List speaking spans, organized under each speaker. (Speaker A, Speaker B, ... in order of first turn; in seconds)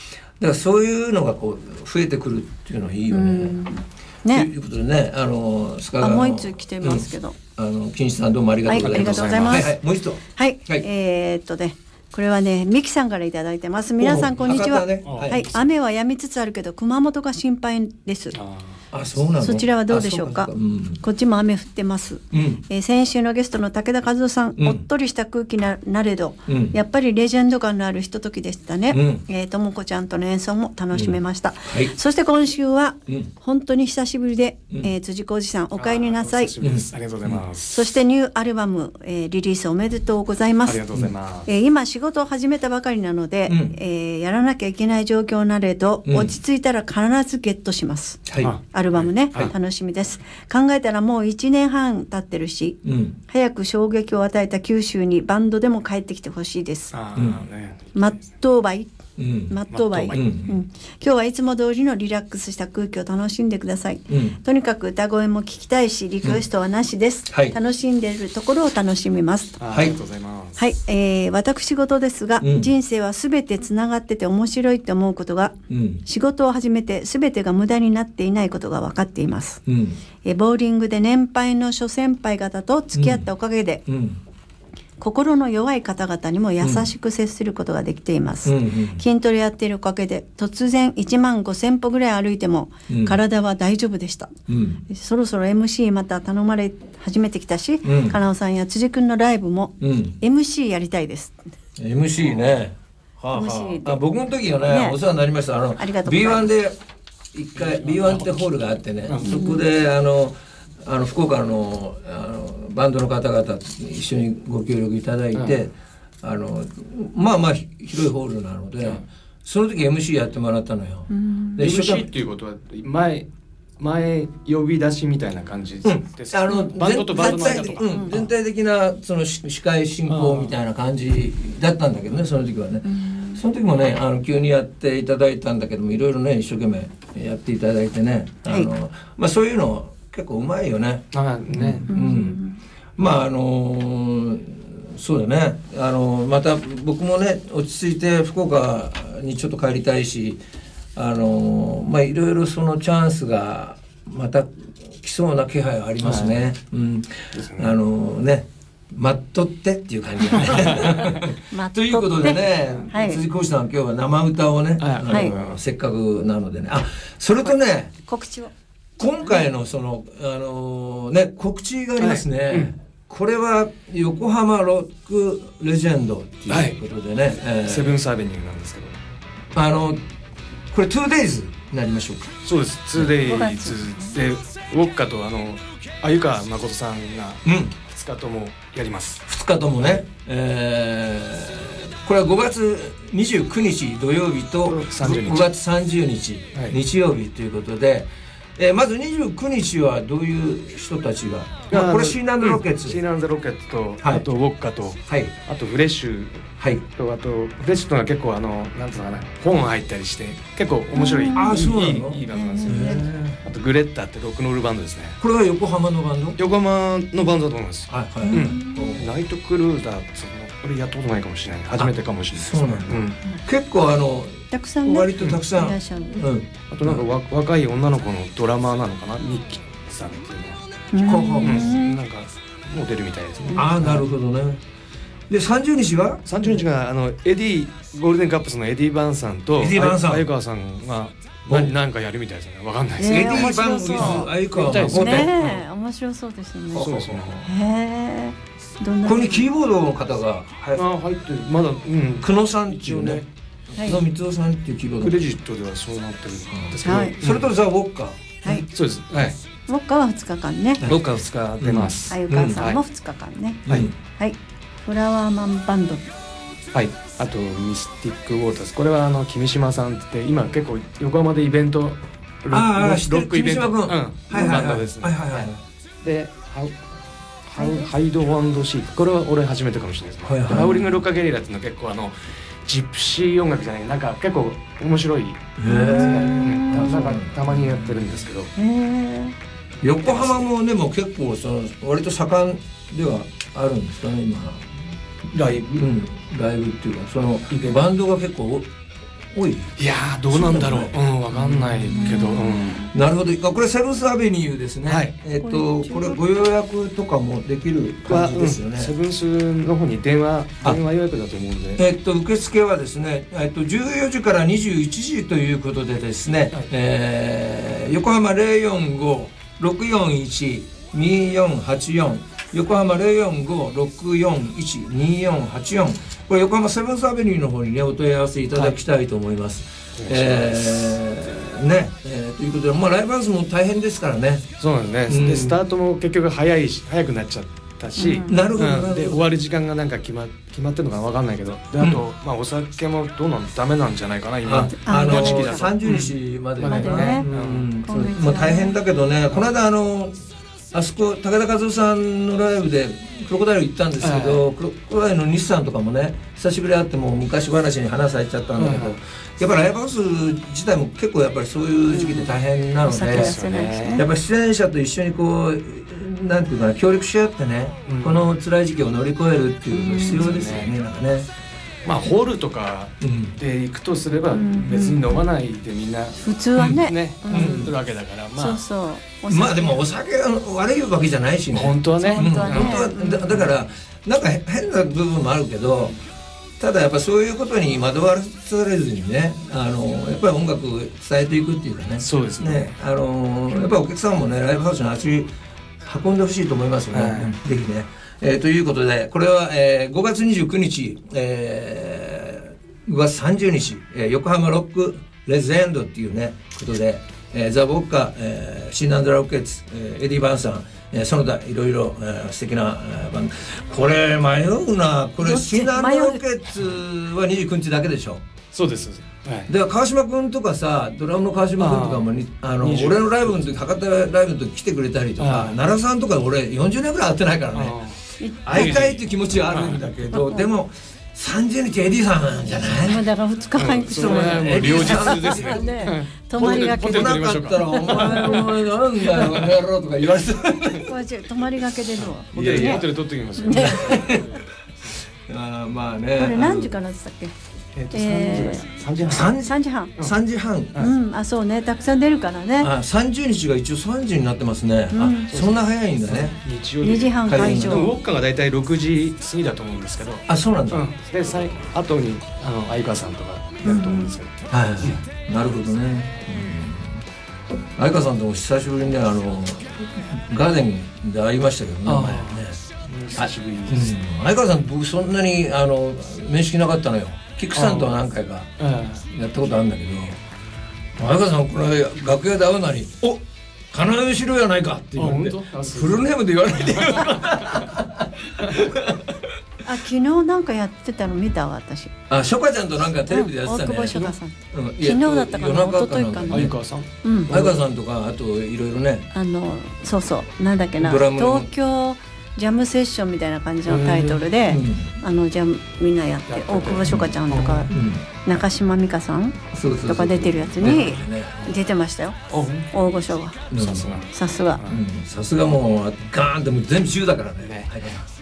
Speaker A: 0.4-3.6, 4.3-10.8, 14.0-15.5, 18.9-21.0, 22.3-22.6, 24.6-24.8, 26.5-26.8, 28.9-29.2, 30.9-31.9, 36.6-37.4, 43.5-43.8, 46.0-46.3, 48.2-48.5, 52.8-53.1, 57.1-57.4, 59.2-59.5, 60.1-60.5, 64.1-64.4, 67.3-67.5, 69.7-70.0, 72.4-72.7, 75.7-76.0, 79.7-80.0, 82.9-83.2, 83.8-84.2, 86.6-86.9, 88.4-89.0, 92.9-93.2, 94.5-94.8, 97.8-98.2, 99.8-100.2, 101.8-106.8, 107.3-122.1, 125.8-142.4, 143.0-150.4, 150.9-167.9, 169.0-178.0, 179.5-180.0, 180.7-182.3, 187.4-187.8, 189.3-203.0, 205.1-205.3, 211.3-213.4, 215.2-216.4, 217.9-219.1, 221.7-227.0, 231.0-231.8, 233.5-234.6, 235.3-236.6, 239.6-240.3, 241.5-241.7, 243.0-245.3, 246.7-247.5, 249.0-250.8, 252.2-255.2, 256.5-258.2, 260.8-262.6, 263.7-263.9, 272.5-275.5, 280.2-280.8, 285.6-287.9, 289.8-294.7, 295.3-298.7, 299.3-299.7, 300.3-302.2, 302.9-308.9, 311.8-334.4, 335.1-335.6, 338.3-339.2, 344.4-363.4, 363.9-371.3, 373.0-373.3, 376.6-377.7, 379.3-385.9, 386.6-418.2, 419.5-427.8, 428.4-433.1, 433.9-435.6, 436.4-440.9, 442.3-442.9, 443.5-446.7, 449.0-450.9, 452.6-456.4, 457.2-457.9, 460.3-460.9, 464.5-467.0, 467.8-472.6, 473.1-478.5, 479.0-480.2, 480.9-489.3, 492.1-496.5, 497.3-499.1, 500.8-501.5, 504.5-505.0, 506.9-507.1, 507.7-508.0, 509.5-511.6, 513.5-514.0, 514.6-518.1
Speaker B: 3.1-4.5, 6.0-7.3, 8.7-9.7, 10.3-18.4, 19.4-36.5, 37.7-40.8, 41.5-56.9, 57.9-58.9, 59.5-69.6, 70.6-79.6, 80.2-83.8, 85.0-94.3, 94.9-101.4, 103.3-104.0, 104.6-105.0, 105.8-106.5, 109.2-109.6, 121.1-121.6, 126.5-128.2, 132.9-133.4, 141.9-142.6, 160.4-163.2, 165.1-165.3, 168.0-168.5, 183.2-184.1, 210.9-211.7, 212.3-213.0, 218.3-218.9, 224.5-226.2, 230.9-232.0, 243.0-244.3, 244.9-249.5, 256.8-257.1, 259.7-260.8, 262.1-266.1, 277.6-277.9, 285.6-287.0, 288.6-289.3, 301.9-302.9, 305.4-306.2, 338.0-338.4, 344.8-345.7, 346.6-347.3, 347.8-348.8, 361.9-362.3, 362.8-364.1, 369.7-370.4, 374.3-375.1, 376.2-377.7, 378.4-379.8, 382.0-383.4, 415.2-416.2, 428.2-428.8, 430.1-430.5, 432.6-439.3, 440.9-442.9, 443.4-444.3, 446.1-447.3, 447.9-448.6, 449.4-449.9, 450.8-452.7, 454.9-455.3, 456.8-457.9, 463.6-464.1, 489.6-491.9, 493.1-496.5, 497.0-497.3, 499.1-513.5, 514.1-514.6
Speaker C: 8.8-9.7, 15.0-15.4, 18.3-18.8, 35.7-37.9, 40.6-41.5, 56.9-58.2, 59.7-60.5, 69.6-70.6, 107.6-108.3, 121.6-123.3, 123.8-128.3, 130.1-130.5, 141.1-141.9, 156.0-156.4, 157.3-157.8, 164.8-165.6, 172.0-172.7, 176.5-176.8, 177.5-178.9, 182.4-189.2, 194.7-195.5, 201.7-215.2, 216.4-223.2, 226.7-230.6, 231.4-234.0, 236.2-245.7, 246.8-247.3, 250.8-253.3, 255.0-257.5, 258.5-259.4, 260.8-262.8, 266.7-276.8, 277.4-282.1, 282.6-288.5, 290.0-290.4, 297.5-297.8, 299.8-302.7, 304.9-305.1, 308.1-311.8, 330.0-330.9, 334.6-347.7, 354.0-354.4, 358.6-358.9, 363.0-364.0, 367.9-368.2, 370.1-370.7, 371.8-378.6, 381.5-383.6, 392.0-392.7, 396.9-397.3, 418.5-419.5, 421.6-422.1, 422.6-423.5, 425.2-425.5, 427.5-428.0, 428.5-429.0, 429.5-429.8, 433.6-437.6, 442.2-444.1, 447.7-449.3, 455.3-465.0, 471.8-474.0, 477.5-477.9, 478.6-479.0, 485.0-486.1, 486.7-487.6, 496.3-497.5, 503.7-504.3, 506.3-507.7, 512.3-512.7, 513.5-514.8, 517.4-517.7